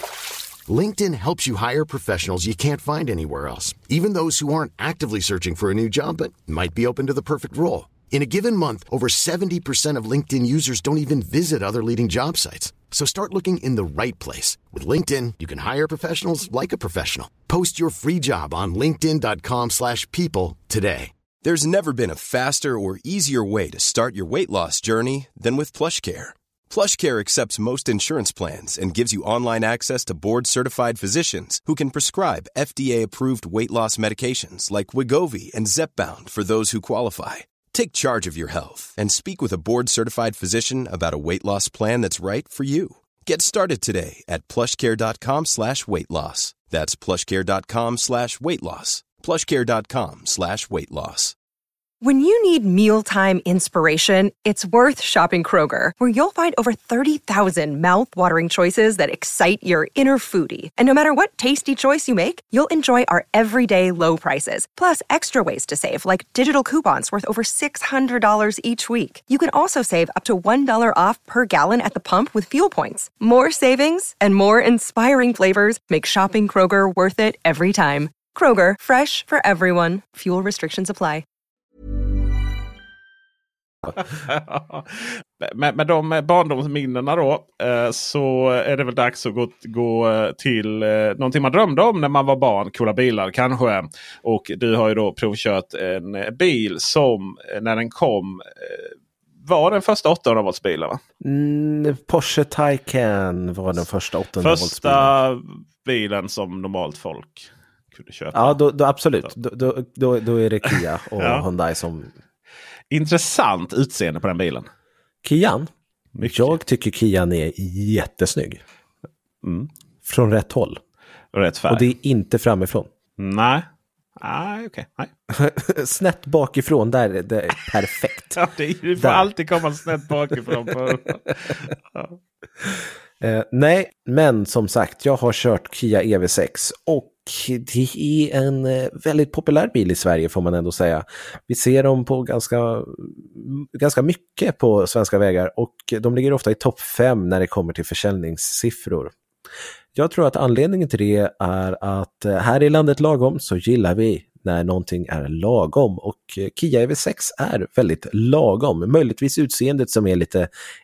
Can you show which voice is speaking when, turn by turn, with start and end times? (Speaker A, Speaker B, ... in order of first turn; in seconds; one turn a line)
Speaker A: 0.7-21.1
Speaker B: 21.4-51.3
Speaker C: 52.0-81.2
Speaker D: 84.0-98.9
Speaker D: 99.4-101.0
Speaker E: 101.2-105.1
Speaker D: 104.4-108.6
Speaker E: 108.3-112.1
Speaker D: 111.2-111.5
Speaker D: 112.9-114.7
Speaker E: 115.2-118.6
Speaker D: 116.2-116.6
Speaker D: 119.4-119.7
Speaker E: 120.0-120.8
Speaker D: 121.3-121.9
Speaker E: 121.7-122.9
Speaker D: 123.2-123.7
Speaker D: 124.2-125.1
Speaker E: 125.3-128.4
Speaker D: 128.4-132.2
Speaker E: 129.0-129.3
Speaker E: 130.3-131.0
Speaker E: 133.2-149.1
Speaker E: 149.9-160.5